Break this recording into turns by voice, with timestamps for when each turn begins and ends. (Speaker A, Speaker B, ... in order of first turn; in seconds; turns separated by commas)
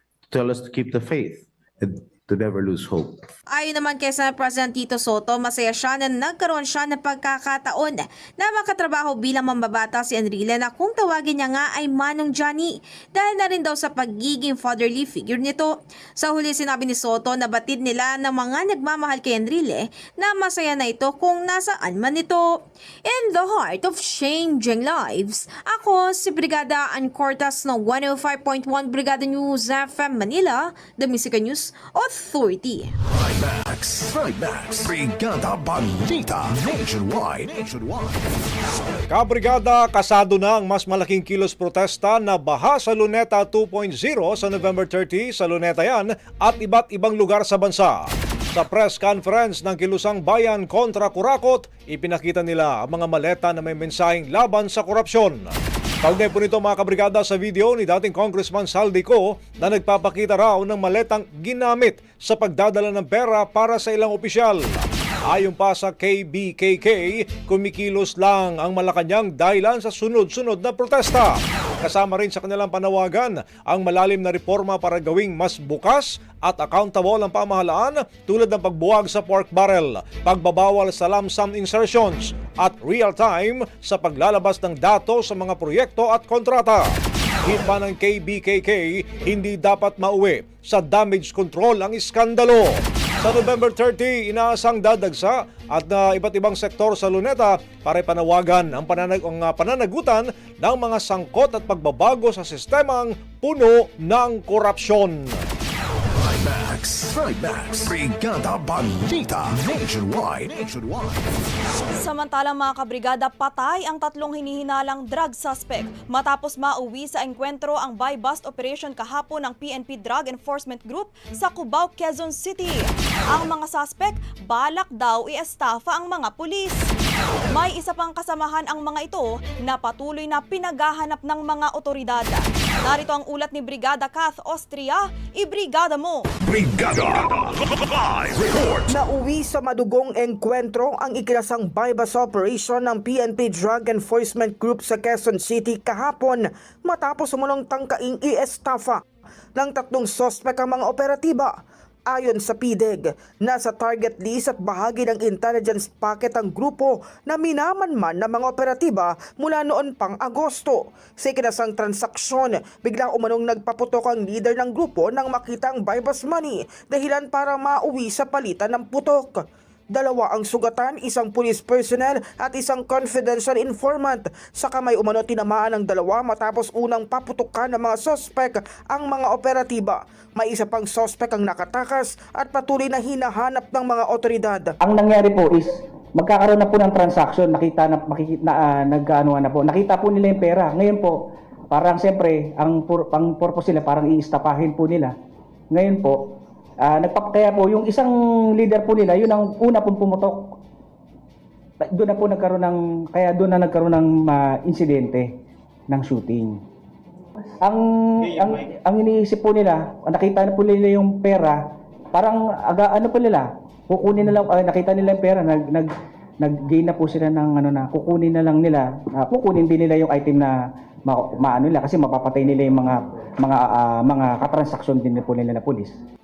Speaker A: 0.3-3.3, Speaker B: 3.5-32.9, Speaker C: 33.1-38.2, Speaker D: 39.1-55.5, Speaker D: 56.0-105.3, Speaker C: 106.1-111.2, Speaker E: 112.0-126.9, Speaker E: 127.5-136.3, Speaker C: 136.4-137.5, Speaker C: 138.1-138.9, Speaker F: 138.9-149.0, Speaker F: 149.6-151.6, Speaker F: 152.1-184.7, Speaker G: 184.8-191.2, Speaker G: 191.7-195.1, Speaker G: 195.7-196.2, Speaker G: 196.8-200.6, Speaker G: 201.9-205.3, Speaker G: 205.9-206.6, Speaker G: 207.6-211.6, Speaker G: 212.1-215.9, Speaker G: 216.4-220.5, Speaker G: 221.1-226.0